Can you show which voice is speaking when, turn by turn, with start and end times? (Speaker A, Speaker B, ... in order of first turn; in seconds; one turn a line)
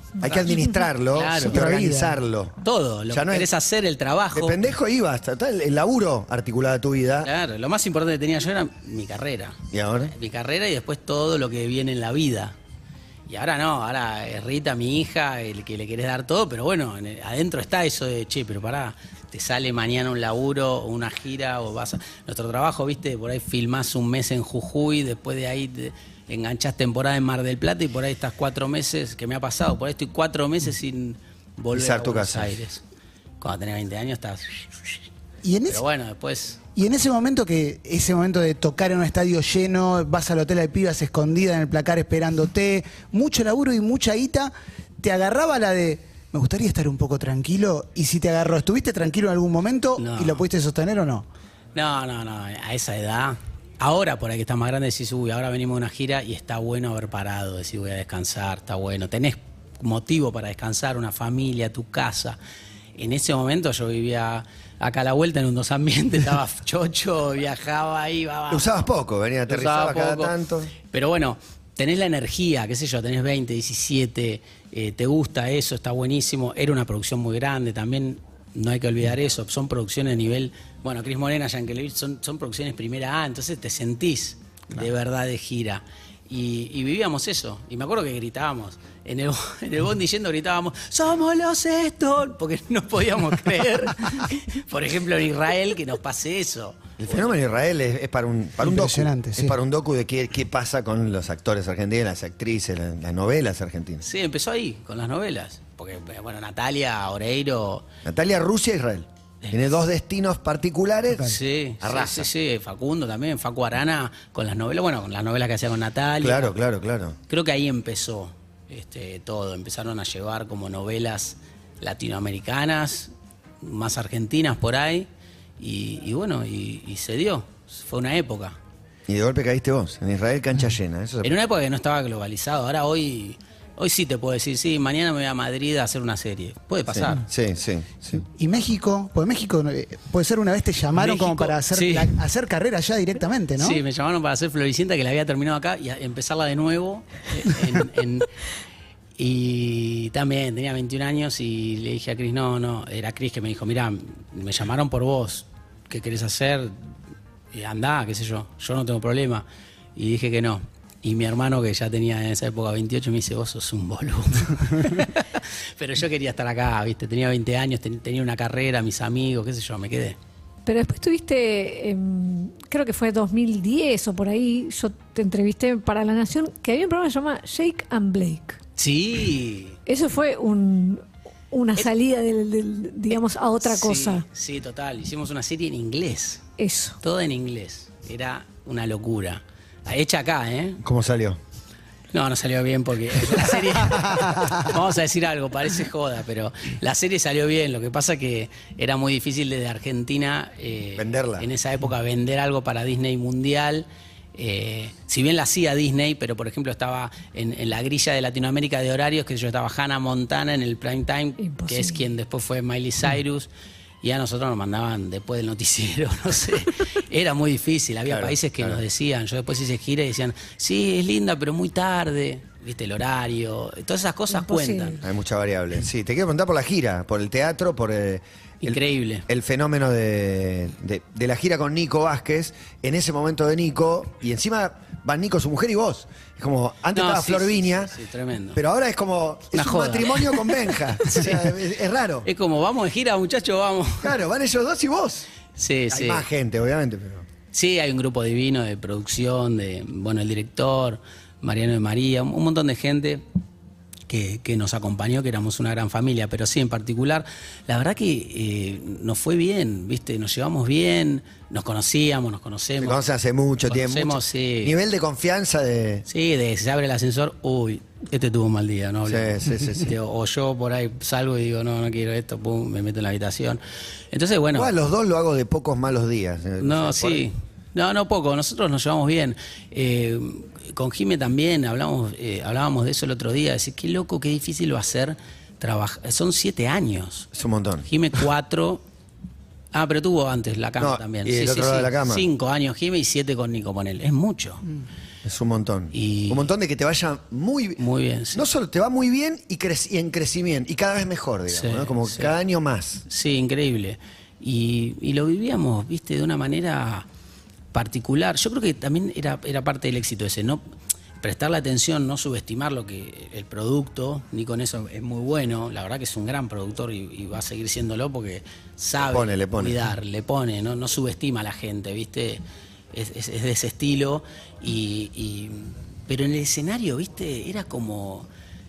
Speaker A: 0.2-0.5
Speaker B: 0.2-2.6
Speaker C: 0.2-0.8
Speaker A: 1.1-1.6
Speaker D: 1.4-2.2
Speaker A: 2.6-4.6
Speaker B: 3.1-3.5
Speaker B: 4.3-7.3
Speaker A: 7.2-9.6
Speaker B: 9.7-10.1
Speaker A: 10.1-12.6
Speaker A: 13.3-32.8
Speaker B: 31.7-32.6
Speaker A: 33.4-35.0
Speaker D: 35.4-35.8
Speaker A: 35.7-36.6
Speaker D: 36.7-51.2
Speaker A: 50.0-50.4
Speaker A: 51.7-62.4
Speaker A: 63.0-68.9
Speaker B: 68.5-70.7
Speaker A: 69.5-97.3
Speaker B: 97.0-104.0
Speaker D: 98.6-99.5
Speaker A: 104.0-107.8
Speaker B: 108.0-112.3
Speaker A: 109.4-109.7
Speaker A: 111.2-116.6
Speaker B: 116.2-117.2
Speaker A: 117.3-123.1
Speaker A: 123.6-125.1
Speaker A: 125.6-128.6
Speaker B: 129.1-131.3
Speaker A: 131.2-137.2
Speaker B: 136.9-138.2
Speaker D: 138.3-143.8
Speaker A: 140.9-142.2
Speaker A: 143.6-148.3
Speaker A: 149.2-156.9
Speaker A: 157.5-170.2
Speaker C: 170.7-178.6
Speaker A: 178.8-179.8
Speaker C: 179.9-184.2
Speaker A: 183.1-186.4
Speaker C: 186.6-187.0
Speaker A: 187.0-190.8
Speaker B: 190.8-191.4
Speaker A: 192.1-213.5
Speaker B: 200.9-201.5
Speaker C: 211.4-212.0
Speaker A: 214.0-225.0
Speaker B: 218.1-218.8
Speaker C: 224.3-225.0
Speaker B: 225.0-237.9
Speaker A: 228.6-229.2
Speaker A: 236.9-238.6
Speaker B: 238.5-242.3
Speaker A: 239.5-241.5
Speaker A: 242.2-244.1
Speaker B: 244.0-245.3
Speaker A: 245.6-246.2
Speaker B: 245.9-247.2
Speaker A: 247.5-253.2
Speaker A: 254.1-263.0
Speaker B: 262.8-266.1
Speaker A: 263.6-264.8
Speaker A: 266.1-273.6
Speaker B: 269.1-269.9
Speaker A: 274.1-274.7
Speaker B: 274.5-277.2
Speaker A: 276.6-287.3
Speaker B: 287.3-287.9
Speaker A: 287.8-288.8
Speaker A: 289.7-294.6
Speaker B: 290.8-292.2
Speaker B: 295.2-303.0
Speaker A: 295.9-296.5
Speaker A: 297.8-298.4
Speaker A: 301.5-302.4
Speaker A: 303.1-307.1
Speaker A: 307.7-310.6
Speaker A: 311.2-322.4
Speaker B: 319.0-319.8
Speaker A: 322.9-328.3